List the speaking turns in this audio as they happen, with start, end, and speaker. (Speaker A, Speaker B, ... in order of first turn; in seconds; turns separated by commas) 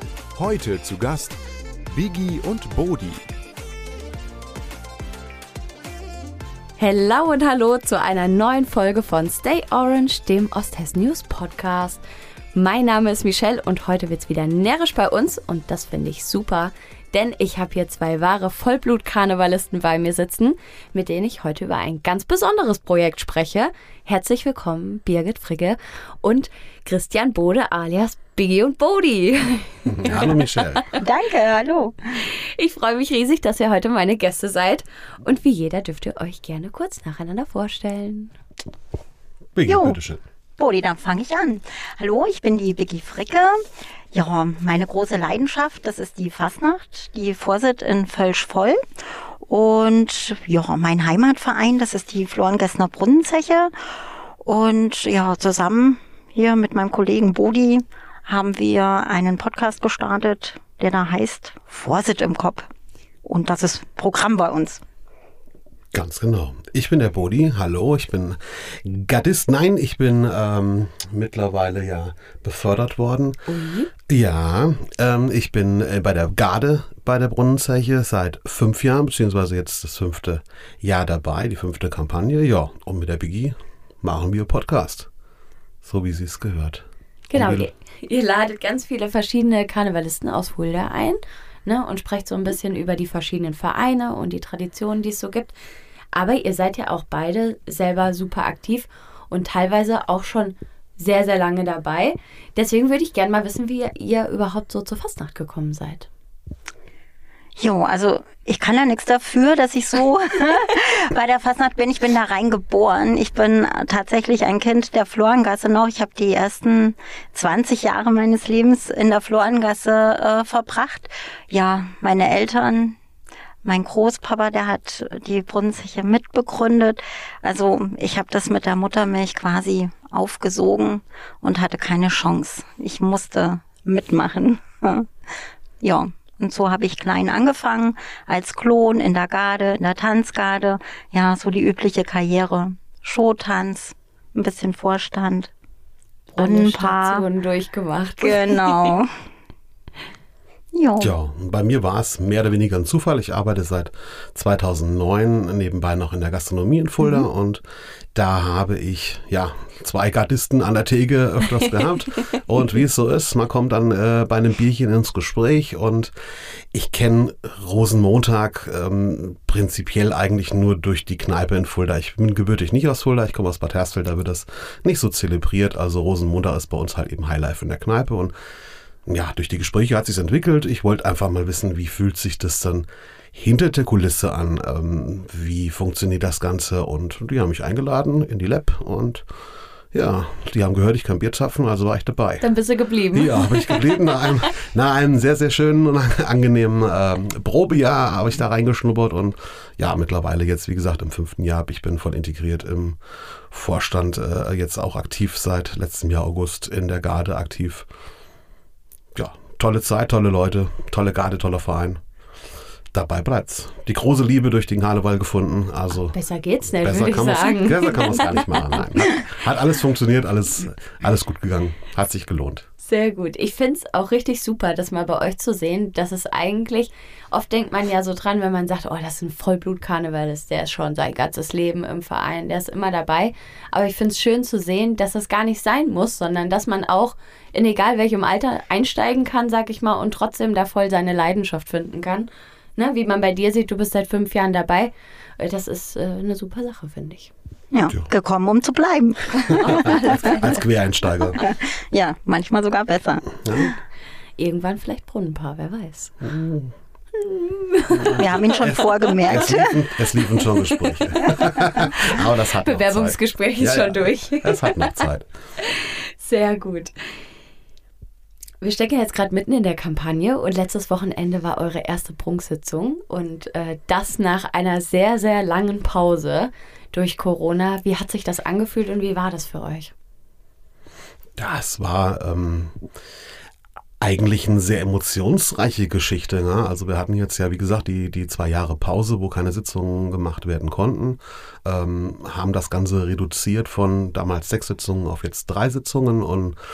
Speaker A: 0.3-1.4, Speaker A: 1.9-3.2, Speaker B: 6.8-12.0, Speaker B: 12.5-31.0, Speaker C: 29.9-30.9, Speaker D: 30.9-32.0, Speaker B: 32.2-38.3, Speaker C: 39.5-40.2, Speaker D: 39.7-40.0, Speaker D: 40.6-53.7, Speaker D: 54.4-62.7, Speaker D: 63.2-64.8, Speaker C: 65.9-73.4, Speaker B: 73.5-73.9, Speaker C: 74.1-85.1, Speaker C: 85.8-87.7, Speaker B: 87.3-95.6, Speaker B: 96.1-106.1, Speaker D: 107.6-123.0, Speaker D: 123.6-135.1, Speaker D: 135.8-145.5, Speaker B: 146.3-148.9, Speaker D: 146.4-147.2, Speaker D: 148.2-149.2, Speaker D: 150.7-151.1, Speaker C: 151.0-157.6, Speaker C: 158.1-166.1, Speaker C: 166.7-178.3, Speaker C: 179.1-189.2, Speaker C: 189.9-192.4, Speaker B: 192.4-193.9, Speaker C: 193.1-203.0, Speaker C: 203.5-207.8, Speaker C: 209.1-212.0, Speaker C: 212.9-216.2, Speaker B: 216.1-219.1, Speaker C: 216.8-222.7, Speaker B: 222.8-247.3, Speaker D: 247.7-250.3, Speaker B: 249.5-250.6, Speaker C: 249.6-251.4, Speaker D: 251.4-253.3, Speaker C: 253.4-253.7, Speaker B: 254.4-256.1, Speaker C: 256.2-256.7, Speaker B: 257.1-258.2, Speaker C: 258.0-265.2, Speaker D: 258.0-259.9, Speaker B: 261.8-264.9, Speaker B: 265.6-266.9, Speaker B: 268.6-279.9, Speaker C: 281.4-282.7, Speaker C: 284.0-296.6